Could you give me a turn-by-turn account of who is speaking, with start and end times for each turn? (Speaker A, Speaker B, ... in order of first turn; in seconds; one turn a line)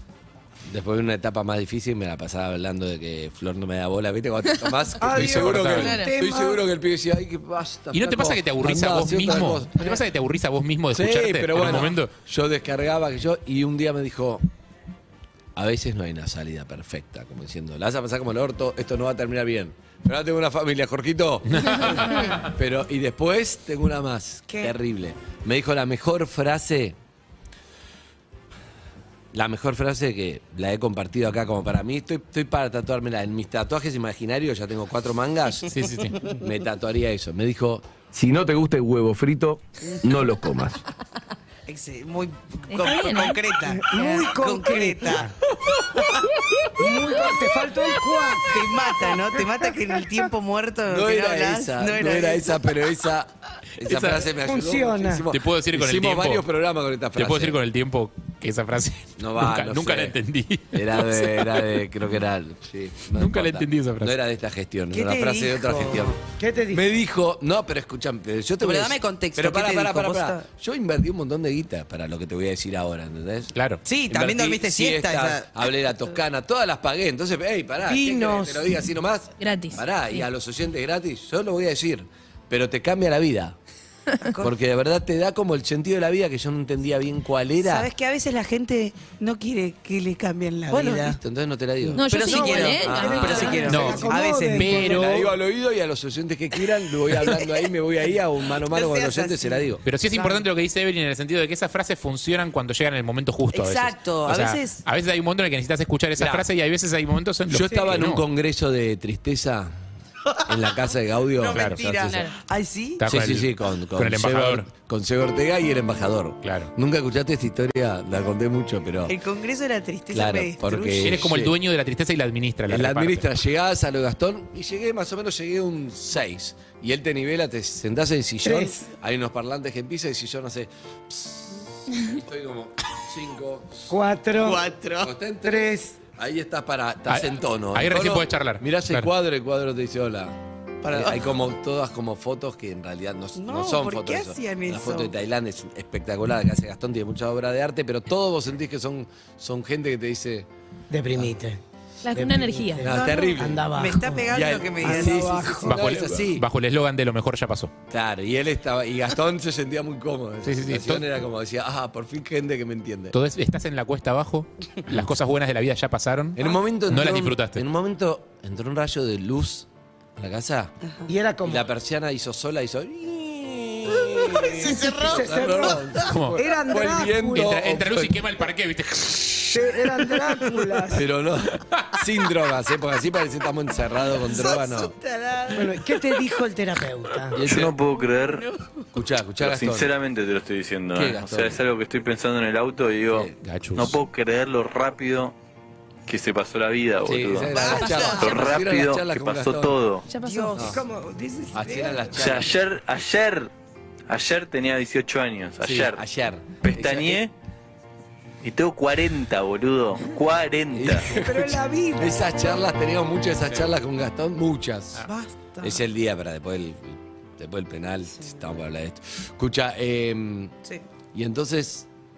Speaker A: 0.7-10.0
Speaker B: 5.0-6.6
Speaker C: 5.0-6.0
Speaker D: 5.8-6.1
Speaker C: 7.9-12.1
Speaker A: 10.9-14.4
Speaker A: 15.6-27.0
Speaker C: 21.5-22.5
Speaker E: 24.5-24.7
Speaker A: 29.3-40.8
Speaker C: 35.7-36.2
Speaker E: 41.7-45.3
Speaker D: 42.7-43.4
Speaker B: 43.7-45.3
Speaker D: 43.9-44.2
Speaker B: 46.8-49.3
Speaker E: 48.5-52.6
Speaker A: 50.9-57.6
Speaker C: 53.9-54.3
Speaker B: 54.4-55.3
Speaker C: 55.3-56.4
Speaker C: 57.1-61.7
Speaker A: 59.2-60.2
Speaker A: 60.7-66.2
Speaker C: 63.1-64.2
Speaker E: 64.9-66.2
Speaker B: 66.4-66.8
Speaker A: 66.7-73.5
Speaker E: 68.6-70.5
Speaker C: 73.5-73.8
Speaker E: 73.8-75.7
Speaker A: 74.1-83.6
Speaker B: 77.9-78.7
Speaker D: 79.4-80.2
Speaker A: 84.4-87.9
Speaker E: 87.6-91.2
Speaker A: 90.7-92.1
Speaker D: 92.0-93.7
Speaker E: 92.0-94.9
Speaker B: 92.2-95.2
Speaker A: 92.7-94.0
Speaker C: 93.7-95.2
Speaker A: 94.9-99.8
Speaker E: 98.5-99.7
Speaker C: 99.8-108.2
Speaker E: 103.5-104.8
Speaker A: 106.2-106.5
Speaker A: 107.5-109.8
Speaker A: 110.5-112.3
Speaker E: 111.3-113.0
Speaker C: 111.5-111.8
Speaker D: 112.0-112.3
Speaker C: 113.0-114.7
Speaker A: 113.0-119.2
Speaker C: 116.4-116.7
Speaker E: 119.1-121.2
Speaker A: 120.1-121.5
Speaker C: 121.0-123.3
Speaker A: 122.7-133.9
Speaker B: 128.4-128.8
Speaker B: 133.9-134.7
Speaker E: 134.4-135.1
Speaker A: 135.0-140.4
Speaker B: 135.4-136.0
Speaker C: 137.1-139.1
Speaker E: 140.8-141.3
Speaker A: 140.9-150.5
Speaker E: 143.3-145.1
Speaker B: 150.9-151.6
Speaker D: 152.0-152.9
Speaker B: 152.1-155.8
Speaker A: 152.8-153.7
Speaker E: 153.0-155.5
Speaker A: 154.3-156.5
Speaker C: 155.6-157.7
Speaker A: 157.9-163.2
Speaker C: 160.4-161.0
Speaker C: 163.1-167.6
Speaker A: 166.3-170.7
Speaker B: 171.1-171.7
Speaker A: 171.4-178.2
Speaker E: 174.2-176.1
Speaker B: 174.9-177.5
Speaker C: 176.1-176.4
Speaker C: 177.3-179.9
Speaker B: 179.5-181.1
Speaker A: 180.9-184.9
Speaker E: 184.3-185.8
Speaker B: 185.5-187.4
Speaker A: 187.3-187.8
Speaker F: 187.4-188.5
Speaker A: 188.9-189.9
Speaker F: 189.4-195.3
Speaker A: 190.9-191.7
Speaker A: 193.1-193.3
Speaker C: 193.4-194.0
Speaker F: 196.1-200.1
Speaker A: 197.0-199.8
Speaker E: 197.4-198.4
Speaker D: 200.1-200.6
Speaker E: 200.2-200.8
Speaker A: 200.6-200.8
Speaker B: 200.6-202.4
Speaker A: 201.5-202.6
Speaker F: 202.2-203.5
Speaker F: 204.1-206.1
Speaker A: 205.6-207.2
Speaker F: 206.6-207.3
Speaker F: 208.4-211.1
Speaker A: 210.7-215.1
Speaker B: 211.1-212.3
Speaker E: 215.1-215.8
Speaker A: 215.6-220.5
Speaker E: 218.2-218.6
Speaker A: 221.1-221.9